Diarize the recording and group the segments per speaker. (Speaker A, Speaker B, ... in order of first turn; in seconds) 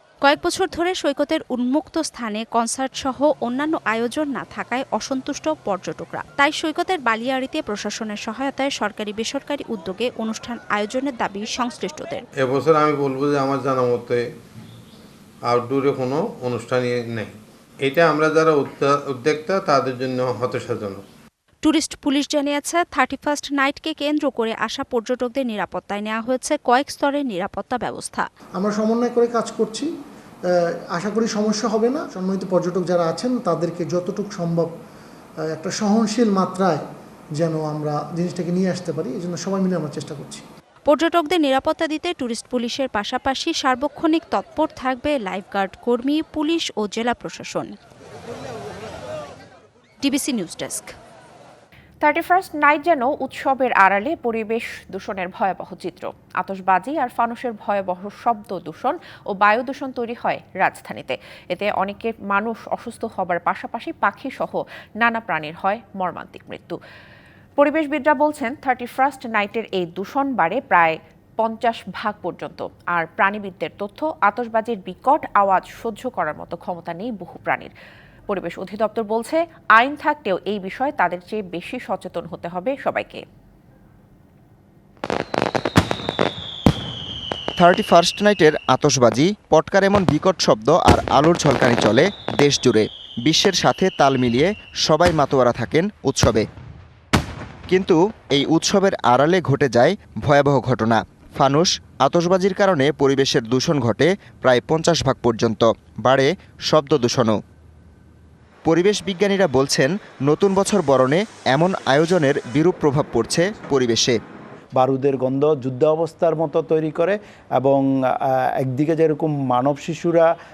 Speaker A: 0.2-12.2, 21.6-28.2, 40.9-47.7, 50.0-50.9
Speaker B: 12.4-14.2, 15.5-17.3, 17.9-21.0
Speaker C: 28.6-29.9, 30.9-34.7, 35.5-36.8, 37.4-40.4
Speaker D: 52.0-66.8, 67.6-77.7, 78.3-83.2
Speaker E: 87.6-96.4, 97.7-107.3, 108.7-114.2
Speaker F: 114.7-120.3